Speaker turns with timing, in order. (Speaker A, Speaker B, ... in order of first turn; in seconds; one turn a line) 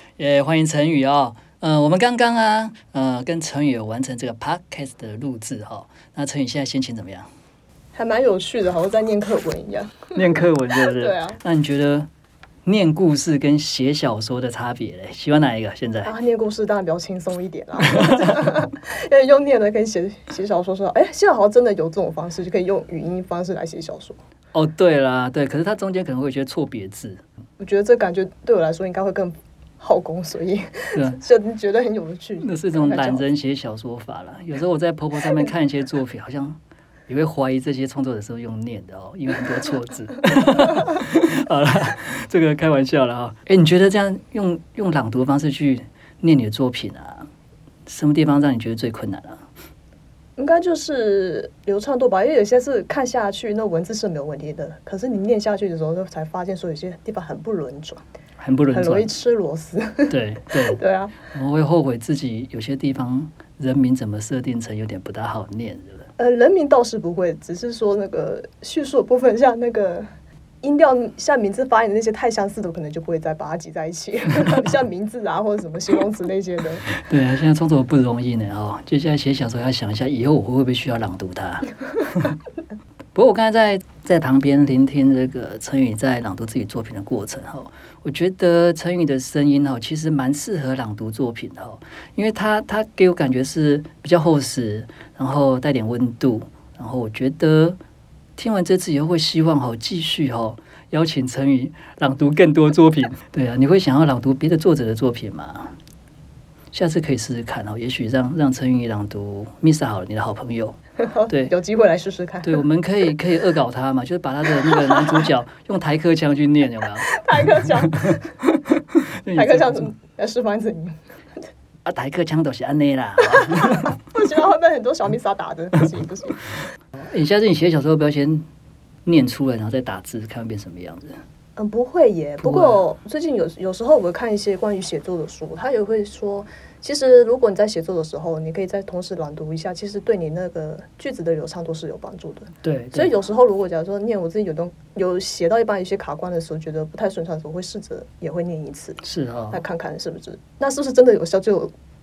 Speaker A: 0.2-7.3
Speaker B: 8.0-10.2
Speaker A: 10.2-12.1
Speaker B: 10.8-11.4
Speaker A: 12.7-16.1
Speaker B: 16.1-24.2
Speaker A: 24.5-27.2
Speaker B: 27.6-33.2
Speaker A: 32.4-47.3
Speaker A: 47.9-49.4
Speaker B: 50.4-58.0
Speaker A: 58.4-59.1
Speaker B: 58.7-60.1
Speaker A: 60.1-66.1
Speaker B: 60.7-61.2
Speaker B: 66.2-70.1
Speaker B: 70.6-76.9
Speaker A: 76.9-82.3
Speaker A: 83.1-97.8
Speaker A: 98.4-105.8
Speaker A: 106.7-110.8
Speaker B: 111.0-112.6
Speaker A: 112.4-119.9
Speaker B: 117.1-118.3
Speaker B: 119.3-121.0
Speaker A: 121.8-124.0
Speaker B: 123.8-126.4
Speaker A: 127.0-128.4
Speaker A: 129.1-131.2
Speaker B: 131.6-151.7
Speaker A: 132.4-132.8
Speaker A: 142.6-143.1
Speaker A: 149.0-149.6